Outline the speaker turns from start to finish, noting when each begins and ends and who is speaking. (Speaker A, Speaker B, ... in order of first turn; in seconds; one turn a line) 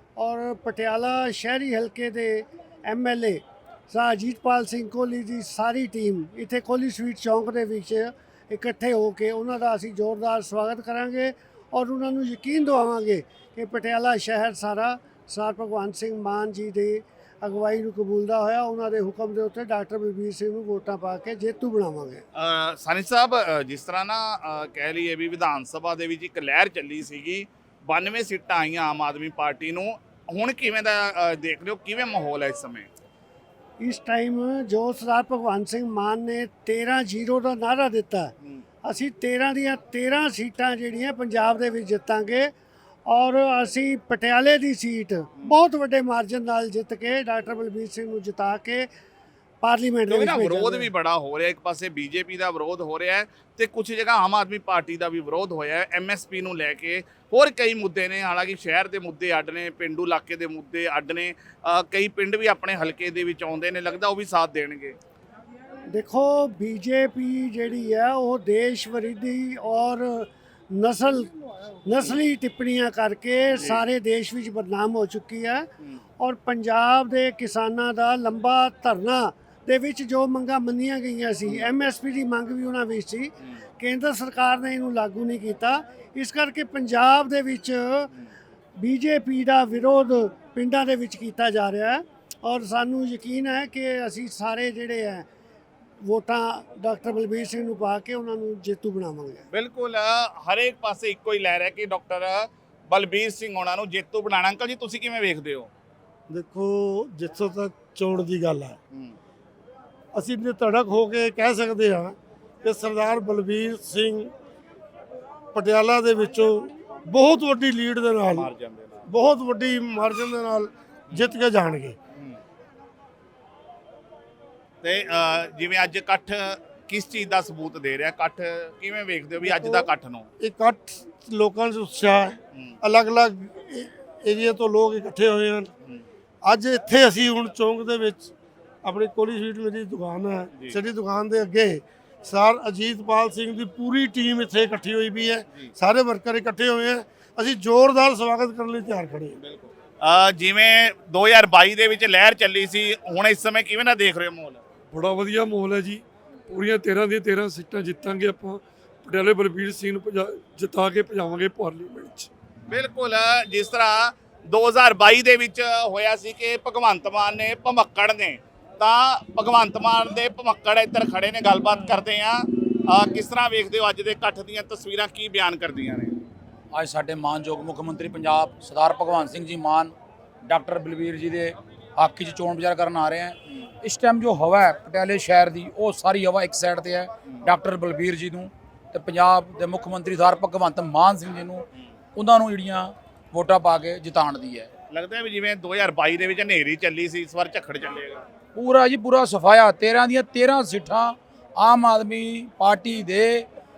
Speaker A: 0.2-22.2
Speaker B: 22.3-32.9
Speaker A: 33.8-38.3
Speaker A: 38.8-42.5
Speaker A: 43.1-48.9
Speaker A: 49.6-50.9
Speaker B: 50.1-65.0
Speaker A: 65.9-71.3
Speaker A: 71.8-75.7
Speaker B: 73.5-73.8
Speaker A: 76.2-88.1
Speaker A: 88.8-95.3
Speaker A: 96.0-99.4
Speaker B: 99.5-105.7
Speaker C: 106.3-108.7
Speaker C: 110.2-114.3
Speaker C: 115.5-118.4
Speaker B: 118.3-119.1
Speaker C: 119.1-122.0
Speaker B: 124.8-130.3
Speaker C: 129.4-129.8
Speaker C: 130.4-135.7
Speaker C: 136.5-138.3
Speaker C: 138.8-149.3
Speaker B: 149.4-154.6
Speaker D: 154.9-162.3
Speaker B: 162.7-176.2
Speaker E: 176.7-179.9
Speaker E: 180.4-194.7
Speaker B: 194.9-198.2
Speaker E: 198.5-203.5